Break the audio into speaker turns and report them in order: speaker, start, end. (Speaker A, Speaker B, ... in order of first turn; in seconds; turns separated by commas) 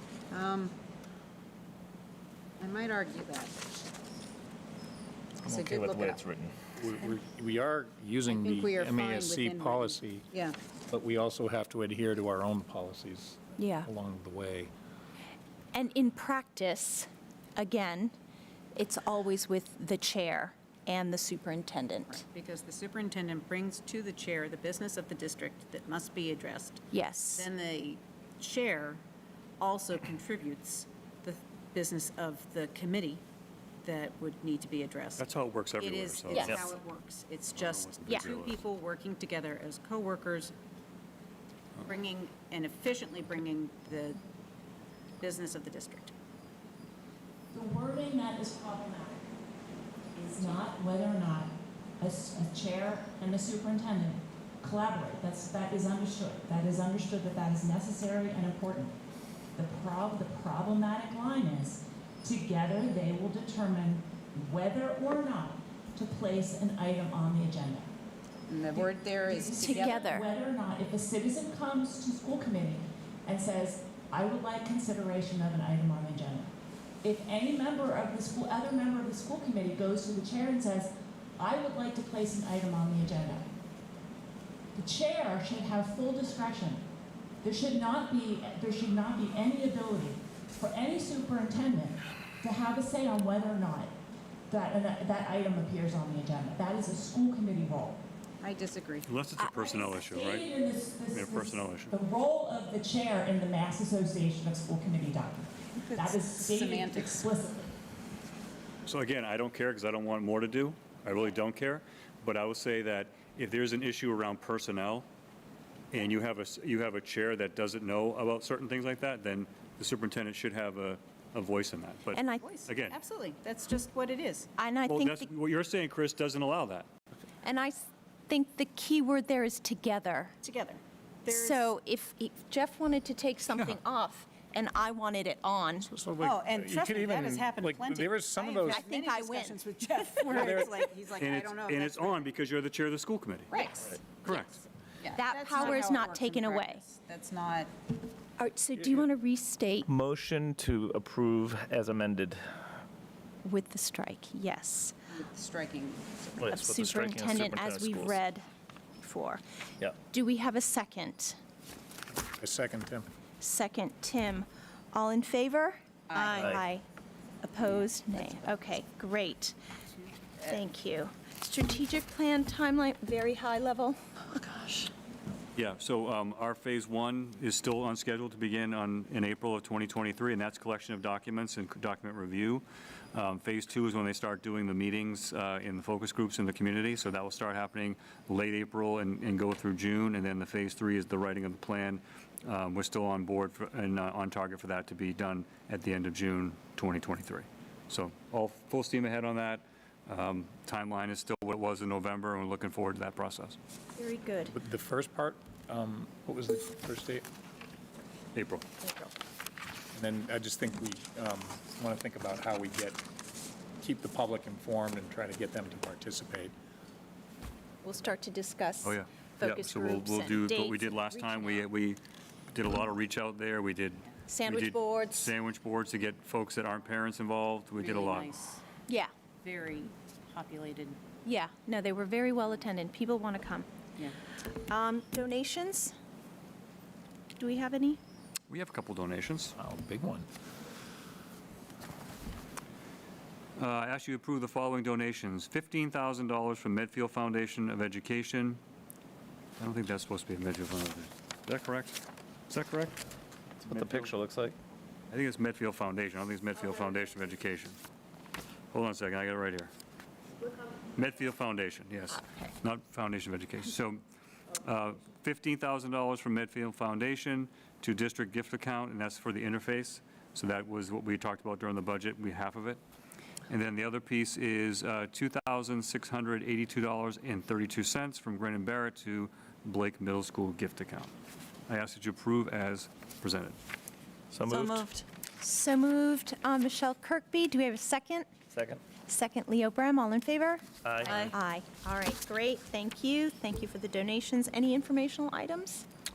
Speaker A: 0.3-0.7, Speaker A: 2.6-3.5, Speaker A: 5.4-6.2, Speaker B: 5.5-6.0, Speaker C: 5.5-6.5, Speaker B: 6.8-10.3, Speaker A: 8.3-10.6, Speaker B: 10.9-14.7, Speaker D: 13.6-13.9, Speaker D: 15.7-18.1, Speaker D: 18.7-22.2, Speaker A: 22.1-29.0, Speaker D: 26.9-27.5, Speaker A: 29.6-33.2, Speaker A: 33.8-40.5, Speaker E: 35.2-36.7, Speaker D: 36.3-36.5, Speaker E: 37.5-38.7, Speaker A: 41.9-44.2, Speaker A: 45.2-46.1, Speaker F: 47.5-49.3, Speaker F: 50.1-58.9, Speaker F: 59.5-67.9, Speaker A: 68.5-70.1, Speaker F: 68.7-83.5, Speaker D: 69.6-70.3, Speaker F: 84.7-86.8, Speaker F: 87.4-93.9, Speaker F: 94.5-98.0, Speaker A: 98.4-99.1, Speaker E: 99.0-100.5, Speaker D: 99.4-100.0, Speaker F: 100.0-107.7, Speaker E: 101.1-102.0, Speaker A: 105.8-107.3, Speaker E: 108.8-115.0, Speaker E: 115.9-123.0, Speaker D: 122.1-122.5, Speaker A: 122.4-124.5, Speaker D: 124.6-125.3, Speaker E: 124.8-126.9, Speaker D: 127.4-130.3, Speaker A: 130.4-131.8, Speaker D: 131.3-135.9, Speaker B: 135.8-138.9, Speaker A: 136.2-142.3, Speaker D: 138.7-140.7, Speaker B: 140.3-140.7, Speaker E: 141.2-143.6, Speaker A: 143.5-144.0, Speaker D: 143.8-146.8, Speaker E: 144.2-144.6, Speaker A: 145.0-147.7, Speaker D: 148.4-149.9, Speaker C: 149.9-152.5, Speaker D: 153.4-154.9, Speaker A: 155.1-156.3, Speaker C: 156.3-158.2, Speaker D: 156.4-158.5, Speaker D: 159.0-159.4, Speaker D: 160.1-161.4, Speaker B: 162.4-163.1, Speaker D: 163.4-166.8, Speaker A: 166.1-166.6, Speaker D: 167.4-169.5, Speaker A: 167.7-168.5, Speaker A: 170.0-170.6, Speaker D: 170.4-174.0, Speaker A: 174.4-174.8, Speaker E: 175.6-203.6, Speaker D: 204.0-204.5, Speaker B: 204.5-207.2, Speaker E: 208.3-208.7, Speaker D: 208.8-209.1, Speaker B: 209.9-213.0, Speaker B: 213.8-216.5, Speaker D: 217.8-221.7, Speaker E: 218.8-228.3, Speaker D: 224.3-225.3, Speaker A: 227.8-228.7, Speaker D: 228.8-229.1, Speaker A: 229.4-231.0, Speaker D: 231.2-233.7, Speaker D: 234.5-235.9, Speaker D: 237.3-238.0, Speaker E: 238.5-239.6, Speaker B: 239.6-240.3, Speaker E: 243.6-248.6, Speaker E: 249.6-251.9, Speaker E: 252.5-252.9, Speaker E: 253.6-254.1, Speaker C: 253.6-254.6, Speaker E: 255.1-257.8, Speaker E: 258.7-259.7, Speaker E: 260.9-264.0, Speaker E: 264.6-272.8, Speaker E: 273.5-281.1, Speaker E: 281.7-283.6, Speaker C: 284.3-284.9, Speaker D: 285.4-288.4, Speaker C: 288.5-288.8, Speaker D: 288.9-295.8, Speaker C: 290.8-291.3